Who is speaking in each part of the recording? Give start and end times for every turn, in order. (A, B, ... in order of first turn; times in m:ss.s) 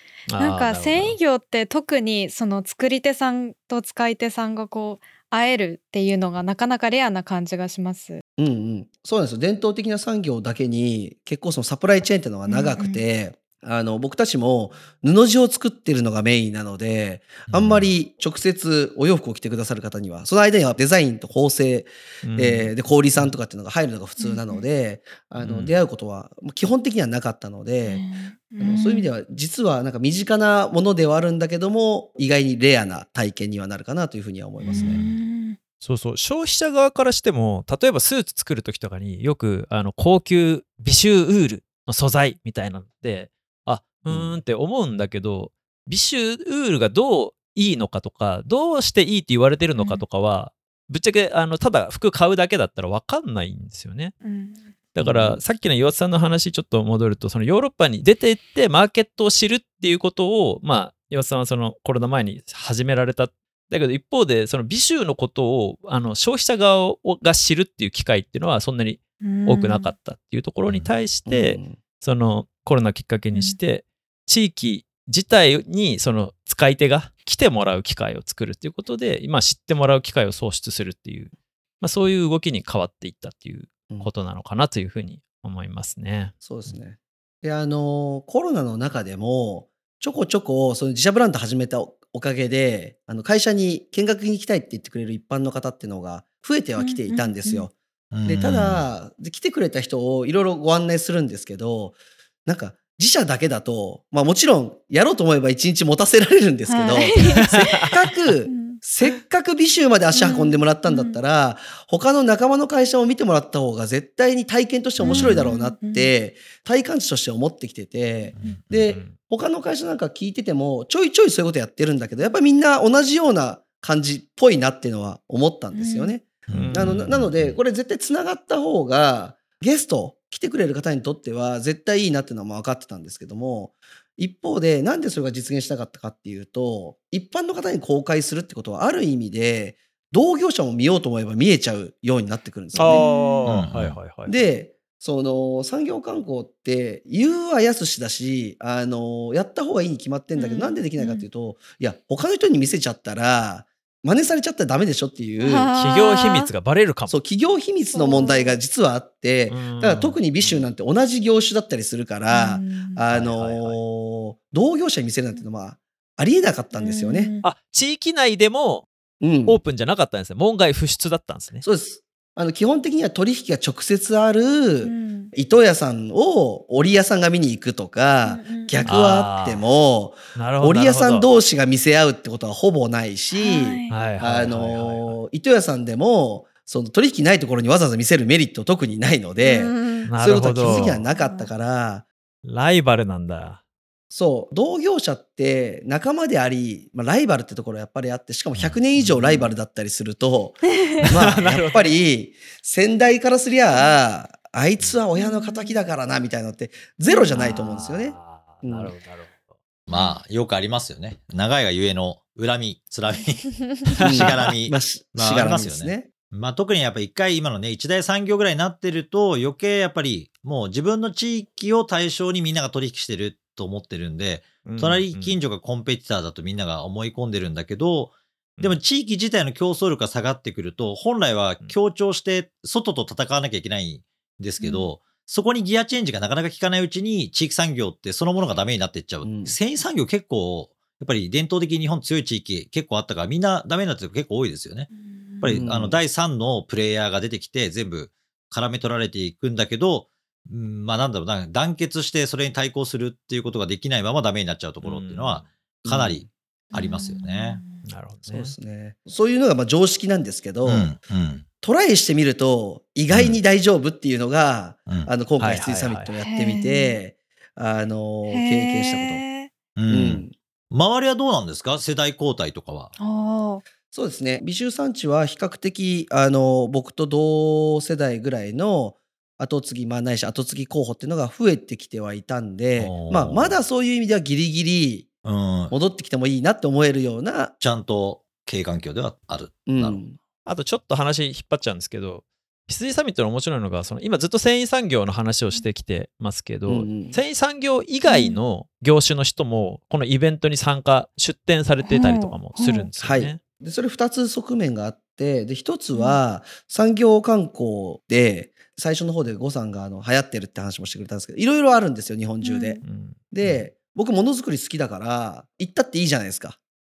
0:00.3-0:01.2 A
0:00.4-0:08.2 B
0:08.4-0:28.0 C
0:12.5-0:13.0 B
0:17.5-0:17.9 D
0:22.2-0:23.3 A
0:24.2-0:24.6 B
0:25.4-0:25.8 D
0:27.9-0:29.1 B
0:28.6-0:35.0 C
0:34.6-0:35.6 B
0:34.7-0:35.1 D
0:35.8-0:54.2 A
0:44.1-0:44.4 C
0:54.2-0:54.8 B
0:54.9-1:26.8 A
0:55.0-0:55.4 C
1:09.2-1:09.9 B
1:11.3-1:11.8 C
1:26.4-1:37.7 C
1:36.8-1:37.7 B
1:38.1-1:38.8 D
1:38.3-2:23.1 C
1:46.7-1:47.9 B
1:47.4-1:47.9 A
1:48.4-1:48.8 B
1:50.1-1:51.2 B
1:55.0-1:56.1 B
1:58.4-1:58.8 D
1:58.9-1:59.2 A
2:05.7-2:06.1 B
2:06.5-2:07.6 D
2:06.5-2:07.1 A
2:22.7-2:24.4 A
2:22.9-2:23.5 B
2:23.5-2:24.0 D
2:24.3-2:35.7 C
2:30.4-2:31.3 B
2:35.4-2:36.5 B
2:35.8-2:37.2 A
2:37.1-2:47.3 C
2:37.9-2:38.6 B
2:39.5-2:40.7 A
2:42.3-2:43.0 B
2:43.1-2:43.8 A
2:46.7-2:47.4 B
2:47.4-2:48.9 A
2:49.2-2:49.6 C
2:49.5-2:51.6 A
2:51.6-3:12.0 C
2:54.8-2:55.3 B
2:58.3-2:58.8 B
2:58.8-2:59.7 A
3:00.4-3:01.3 A
3:03.3-3:04.0 B
3:03.9-3:05.2 A
3:09.4-3:11.5 B
3:10.0-3:11.0 A
3:12.4-3:13.6 A
3:14.1-3:28.9 C
3:19.0-3:19.5 A
3:21.1-3:22.0 A
3:23.7-3:24.0 B
3:25.2-3:25.8 B
3:27.1-3:27.7 B
3:27.4-3:29.5 A
3:29.9-4:17.6 D
3:29.9-3:30.2 B
3:34.0-3:34.3 A
3:34.0-3:36.1 C
3:44.6-3:45.4 A
3:54.6-3:54.9 B
3:59.2-3:59.6 C
4:04.9-4:05.5 B
4:05.5-4:06.0 C
4:14.8-4:15.5 A
4:15.8-4:16.3 C
4:16.7-4:17.8 B
4:17.9-4:18.5 A
4:18.3-4:20.9 C
4:20.6-4:21.4 D
4:21.6-4:29.2 C
4:23.1-4:23.4 D
4:24.9-4:25.6 D
4:25.4-4:26.1 A
4:26.2-4:27.0 B
4:28.3-4:29.5 B
4:29.8-4:32.9 D
4:29.9-4:30.3 C
4:33.0-4:33.6 B
4:33.9-4:45.1 C
4:42.8-4:43.6 D
4:45.2-4:45.8 D
4:45.7-4:47.5 C
4:47.6-4:50.0 D
4:49.7-4:50.2 C
4:50.4-5:03.4 A
4:56.7-4:57.2 C
4:58.1-4:58.4 B
5:01.9-5:02.9 B
5:03.0-5:16.6 C
5:05.9-5:06.2 B
5:12.4-5:12.8 B
5:12.8-5:13.6 A